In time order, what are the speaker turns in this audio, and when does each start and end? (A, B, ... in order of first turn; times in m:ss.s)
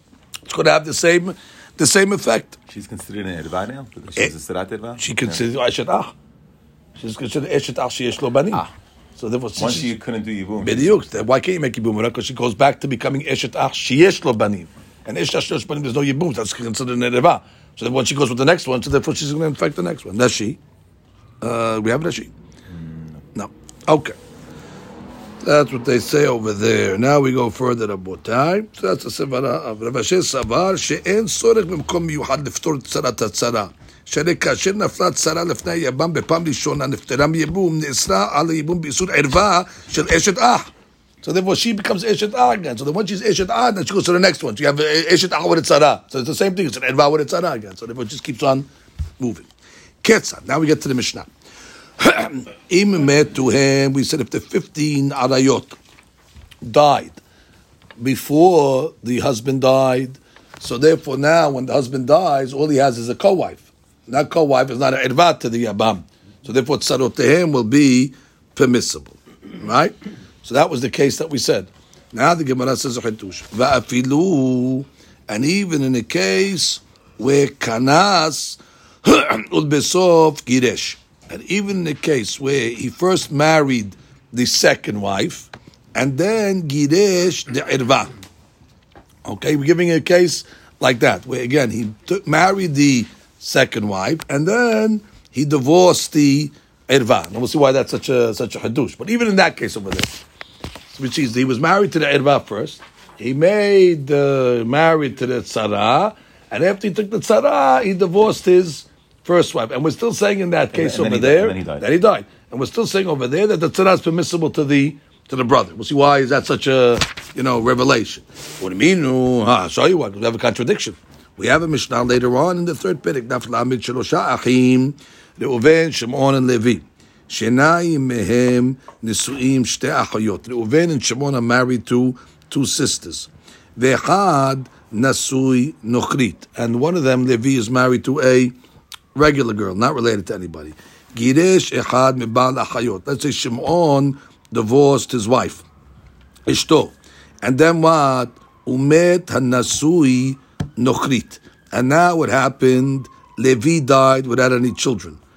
0:00.5-0:02.6 A
0:02.7-0:05.4 B
0:05.0-0:06.1 A
0:07.0-0:08.6 A
0:09.2-0:09.9 A
0:09.6-0:10.9 B
0:10.6-0:20.6 A
0:21.4-0:22.3 A
0:22.7-0:23.2 B
0:23.4-0:24.2 A
0:25.4-0:40.7 A
0:41.2-0:48.7 A
0:49.2-0:49.5 A
0:50.0-0:51.3 A
0:52.0-0:55.8 A
0:56.6-0:57.2 A
0:58.0-1:28.1 A
1:29.2-1:40.2 A
1:40.9-2:18.5 A
1:50.7-1:51.9 B
2:19.2-2:25.6 A
2:26.5-2:35.2 A